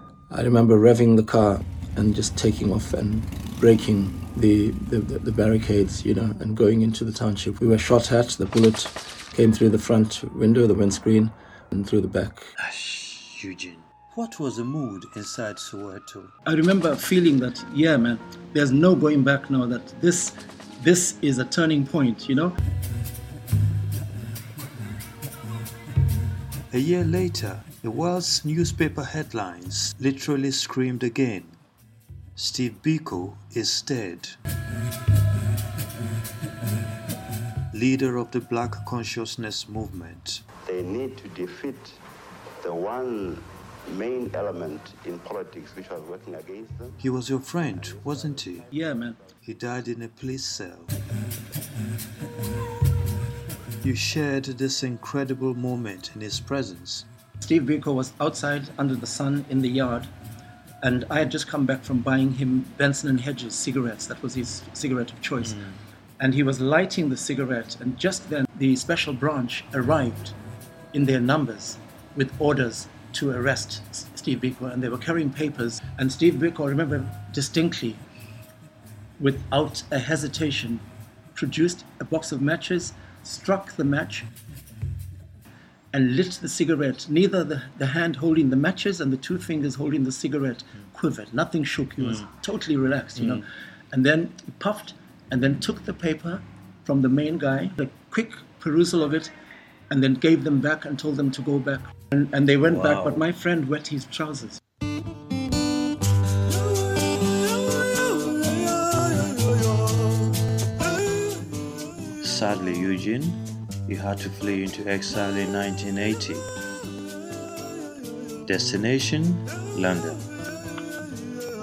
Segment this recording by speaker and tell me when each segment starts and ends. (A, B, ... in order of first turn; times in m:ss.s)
0:00.3-0:12.5 A
0:12.6-0:16.3 B
0:16.4-0:22.6 C
0:26.7-0:31.6 B
0:32.4-0:34.4 B
0:37.7-0:40.4 B
0:40.7-0:42.0 D
0:42.6-0:47.0 D
0:47.0-0:48.7 B
0:48.7-0:49.2 C
0:49.4-0:51.0 B
0:53.8-0:57.1 B
0:57.4-1:00.1 C
1:00.8-1:05.6 C
1:06.2-1:10.3 C
1:10.9-1:18.0 C
1:19.2-1:20.8 C
1:21.3-1:24.3 C
1:25.9-1:39.3 C
1:39.9-1:44.6 C
1:42.6-1:43.2 B
1:52.2-1:56.5 B
1:58.4-2:00.3 B